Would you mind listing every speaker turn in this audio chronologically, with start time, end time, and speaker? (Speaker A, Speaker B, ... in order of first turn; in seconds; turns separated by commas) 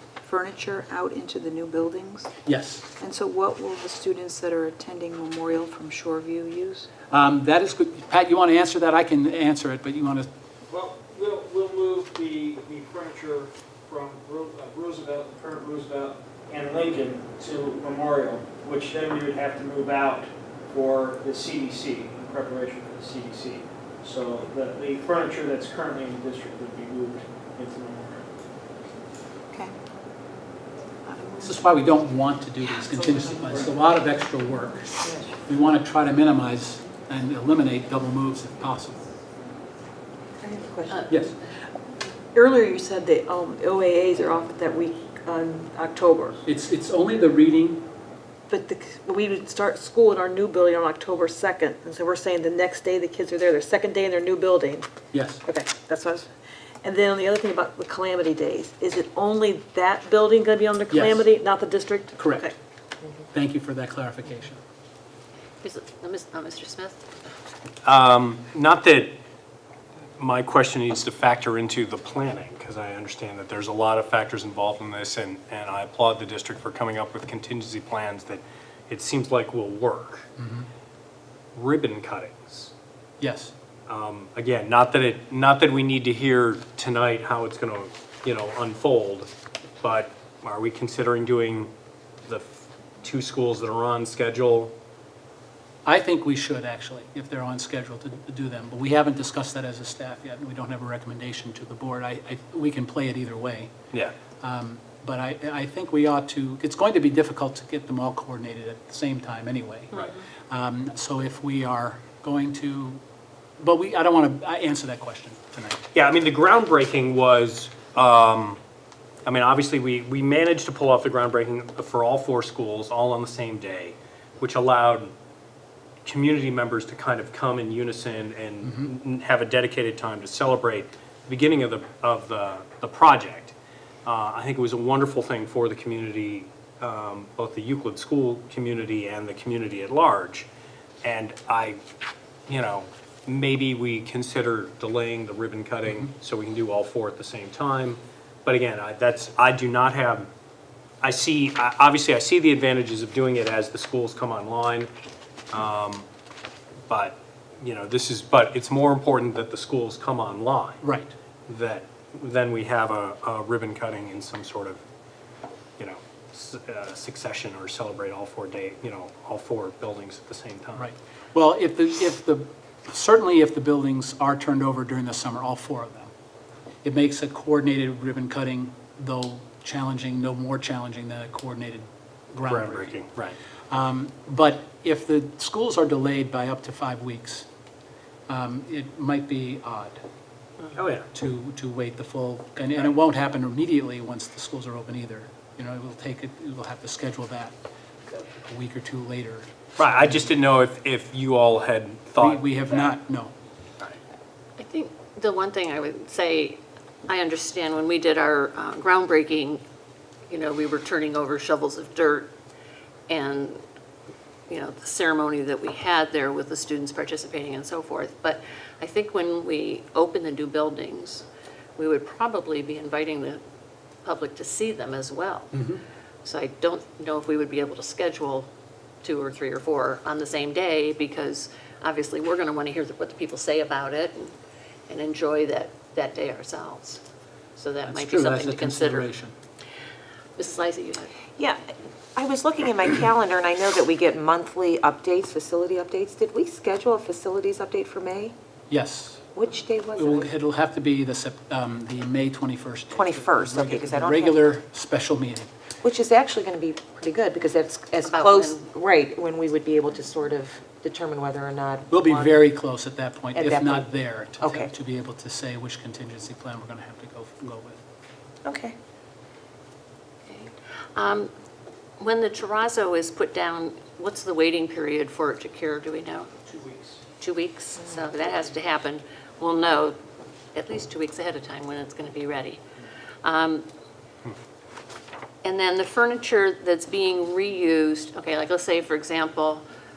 Speaker A: 0.2-2.3, Speaker B: 2.5-2.9, Speaker A: 3.0-6.9, Speaker B: 7.1-10.3, Speaker C: 10.7-28.2, Speaker A: 29.5-29.8, Speaker A: 31.0-31.6, Speaker B: 31.4-39.0, Speaker C: 33.0-33.7, Speaker D: 40.4-41.1, Speaker B: 41.1-41.3, Speaker E: 42.3-46.4, Speaker B: 46.5-47.9, Speaker E: 48.5-54.9, Speaker B: 55.1-55.4, Speaker E: 55.5-56.3, Speaker E: 56.8-62.5, Speaker B: 60.9-61.3, Speaker B: 62.2-62.5, Speaker B: 63.3-64.6, Speaker F: 65.6-67.0, Speaker G: 67.8-69.2, Speaker G: 70.2-80.3, Speaker B: 80.4-80.7, Speaker G: 81.5-82.7, Speaker B: 83.2-83.5, Speaker G: 83.9-89.3, Speaker G: 89.8-91.7, Speaker G: 92.3-94.7, Speaker B: 95.8-103.7, Speaker B: 104.4-113.0, Speaker B: 113.6-115.8, Speaker G: 115.9-118.6, Speaker G: 119.2-125.1, Speaker G: 126.1-133.5, Speaker G: 134.1-140.5, Speaker G: 141.0-141.8, Speaker G: 142.5-150.3, Speaker G: 151.0-154.9, Speaker G: 155.5-156.1, Speaker G: 156.9-160.8, Speaker B: 160.8-161.1, Speaker G: 161.5-164.8, Speaker G: 165.8-170.9, Speaker B: 170.8-176.1, Speaker B: 176.8-183.0, Speaker G: 182.4-183.4, Speaker B: 183.7-187.5, Speaker B: 188.3-190.0, Speaker G: 190.8-191.1, Speaker B: 191.1-197.5, Speaker B: 198.1-200.3, Speaker G: 199.8-202.9, Speaker B: 202.2-203.3, Speaker F: 204.6-209.6, Speaker F: 210.3-212.3, Speaker F: 213.1-213.6, Speaker F: 214.5-221.3, Speaker F: 221.8-223.4, Speaker F: 224.1-225.5, Speaker B: 225.5-225.8, Speaker F: 226.2-228.5, Speaker F: 229.0-234.3, Speaker F: 234.9-237.0, Speaker F: 237.6-239.1, Speaker B: 237.9-239.3, Speaker F: 240.4-241.1, Speaker D: 241.4-248.3, Speaker B: 248.7-249.3, Speaker D: 249.3-250.3, Speaker B: 249.9-255.5, Speaker D: 252.9-254.4, Speaker D: 255.8-262.4, Speaker F: 258.1-258.7, Speaker B: 261.9-267.8, Speaker D: 263.4-263.9, Speaker D: 264.4-264.7, Speaker D: 268.4-268.8, Speaker F: 270.2-271.3, Speaker F: 272.0-276.3, Speaker C: 276.5-277.0, Speaker F: 277.2-280.0, Speaker F: 280.6-282.6, Speaker F: 283.2-283.7, Speaker F: 285.4-289.6